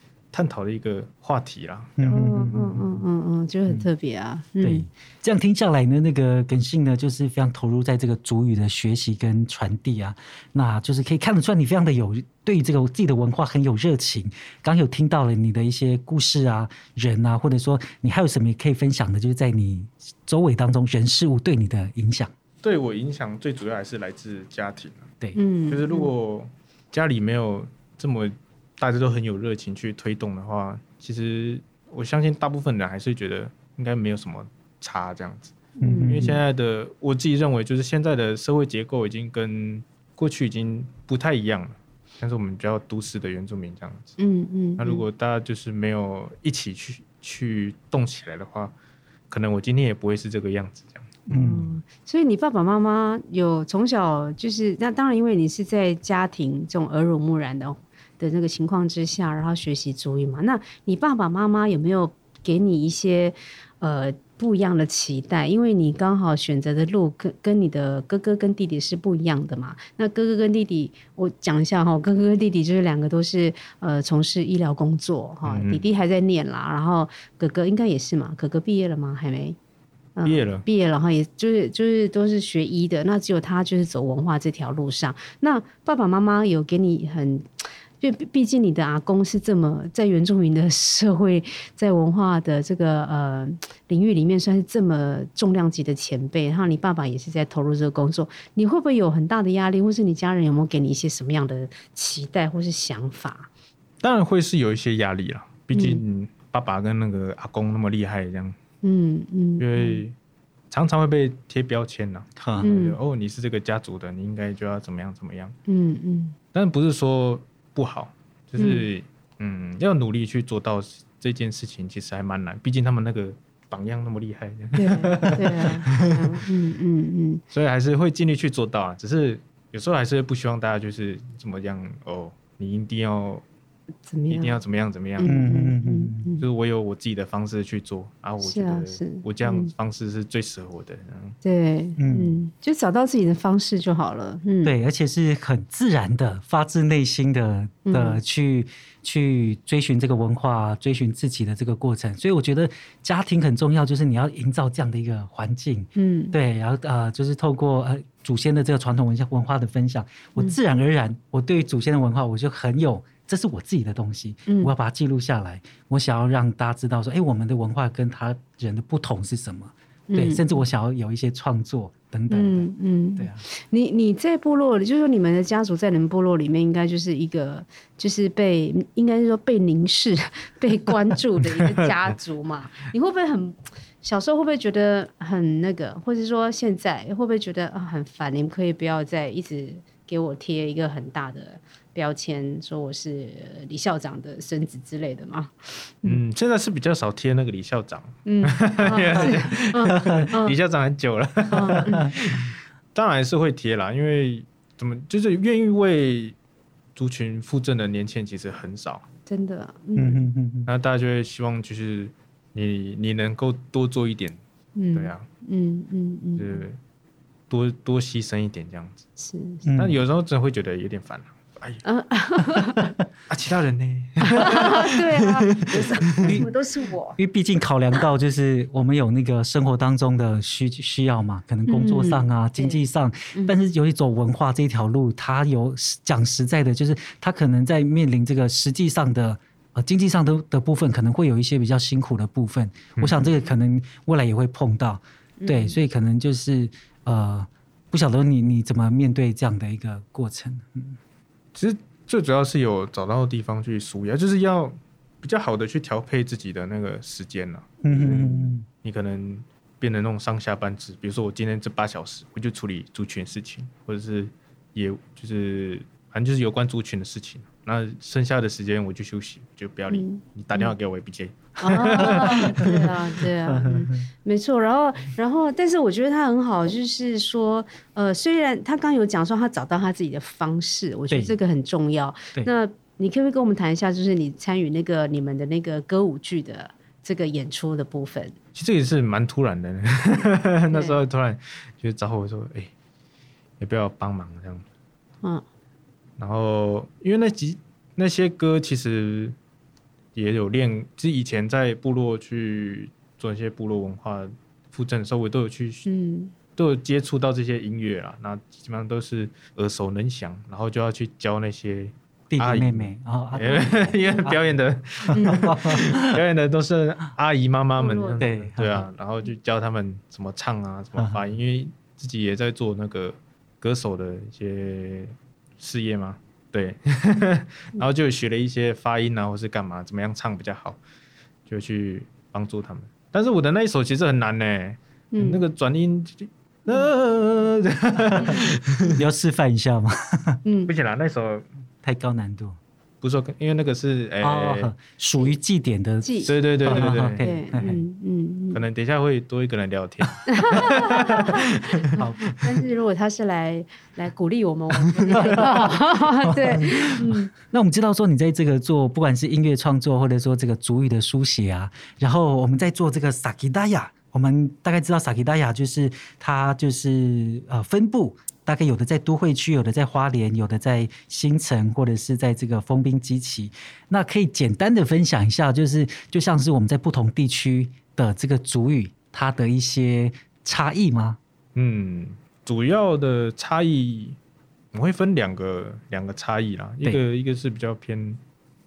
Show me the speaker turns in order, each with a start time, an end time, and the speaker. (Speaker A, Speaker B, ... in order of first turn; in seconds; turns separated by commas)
Speaker A: 0.3-2.1, Speaker B: 2.0-3.0, Speaker C: 2.1-4.9, Speaker B: 4.6-22.3, Speaker A: 22.6-25.1, Speaker C: 25.4-26.1, Speaker A: 25.7-44.2, Speaker C: 35.8-36.4, Speaker B: 35.8-36.4, Speaker C: 44.2-45.0, Speaker A: 44.8-48.7, Speaker A: 49.3-51.2, Speaker B: 51.3-51.7, Speaker C: 51.3-79.6, Speaker A: 75.5-75.9, Speaker C: 80.2-103.5, Speaker A: 80.2-80.7, Speaker A: 104.0-108.6, Speaker C: 105.7-106.0, Speaker C: 108.8-110.0, Speaker A: 109.6-110.1, Speaker A: 110.7-115.6, Speaker B: 112.4-112.7, Speaker C: 112.6-113.0, Speaker C: 115.7-116.4, Speaker A: 116.5-126.2, Speaker C: 118.6-118.9, Speaker C: 124.7-127.4, Speaker A: 127.5-133.4, Speaker C: 134.1-134.6, Speaker A: 134.3-135.3, Speaker C: 135.2-136.4, Speaker B: 135.2-136.3, Speaker A: 136.4-141.4, Speaker C: 138.4-139.7, Speaker C: 141.4-144.7, Speaker B: 142.0-142.4, Speaker B: 144.6-173.4, Speaker C: 147.9-148.2, Speaker C: 155.9-156.4, Speaker C: 170.1-170.6, Speaker C: 172.3-196.2, Speaker A: 196.0-206.4, Speaker C: 198.2-200.6, Speaker B: 199.9-200.2, Speaker C: 201.5-202.2, Speaker A: 206.9-209.1, Speaker C: 209.3-210.3, Speaker B: 209.9-210.7, Speaker A: 210.6-214.4, Speaker C: 214.8-216.6, Speaker A: 214.9-215.2, Speaker A: 216.4-216.8, Speaker A: 217.5-219.0, Speaker C: 219.2-219.6, Speaker B: 219.6-220.0, Speaker A: 219.8-221.8, Speaker C: 221.8-222.9, Speaker A: 223.3-226.3, Speaker C: 224.2-227.2, Speaker B: 225.8-226.5, Speaker B: 227.2-251.0, Speaker C: 231.7-232.8, Speaker A: 242.9-243.3, Speaker C: 245.4-245.8, Speaker A: 251.5-272.7, Speaker B: 257.8-258.6, Speaker C: 258.2-258.5, Speaker C: 269.9-270.7, Speaker C: 271.6-288.4, Speaker B: 271.9-272.9, Speaker B: 273.5-274.1, Speaker B: 281.1-281.4, Speaker A: 288.5-292.7, Speaker C: 290.7-291.0, Speaker A: 293.6-294.6, Speaker A: 296.2-299.4, Speaker A: 300.1-305.9, Speaker C: 305.9-306.3, Speaker A: 306.6-330.8, Speaker B: 312.3-314.4, Speaker B: 315.0-316.2, Speaker C: 315.1-315.4, Speaker C: 317.8-318.2, Speaker B: 318.2-318.9, Speaker A: 331.5-339.0, Speaker C: 335.1-335.4, Speaker C: 338.1-338.5, Speaker B: 338.9-340.4, Speaker C: 340.4-340.7, Speaker A: 340.7-341.4, Speaker B: 341.8-342.6, Speaker A: 343.0-344.7, Speaker B: 344.2-347.8, Speaker C: 346.0-348.6, Speaker A: 346.2-347.2, Speaker A: 348.5-352.4, Speaker C: 350.3-357.3, Speaker B: 350.7-351.1, Speaker B: 351.9-352.4, Speaker B: 355.1-381.2, Speaker A: 381.5-384.2, Speaker A: 384.7-388.2